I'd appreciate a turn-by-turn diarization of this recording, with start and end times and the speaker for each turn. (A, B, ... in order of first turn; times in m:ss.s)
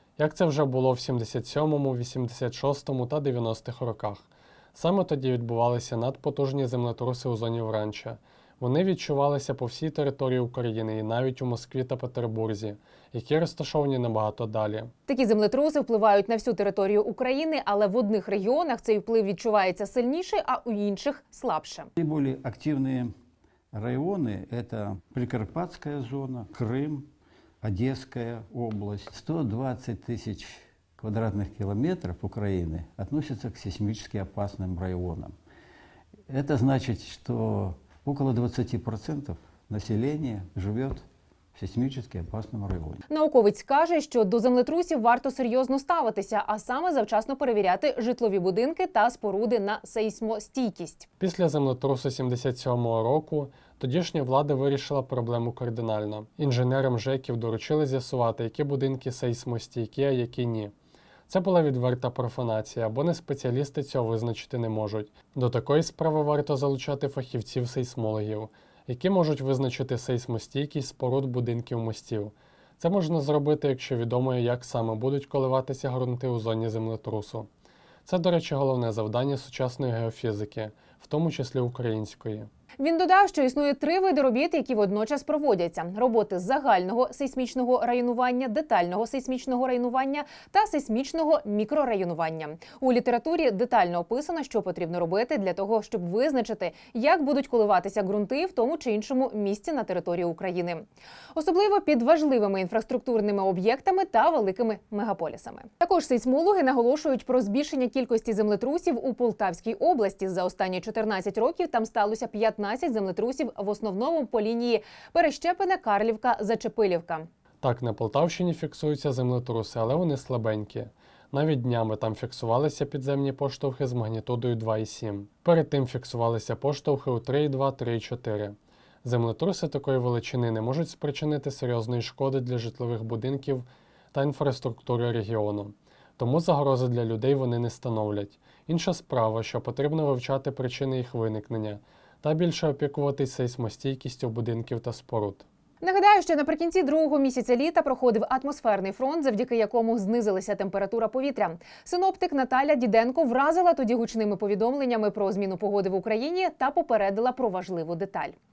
0:00.2-0:14.9 A
0:15.1-0:21.9 B
0:22.0-0:23.1 C
0:23.7-0:27.1 C
0:27.6-0:35.3 C
0:36.3-0:43.0 C
0:43.1-0:51.1 B
0:51.2-1:00.7 A
1:01.3-1:17.5 A
1:18.0-1:22.5 A
1:22.8-1:57.3 B
1:57.6-2:25.4 A
2:25.8-2:38.3 B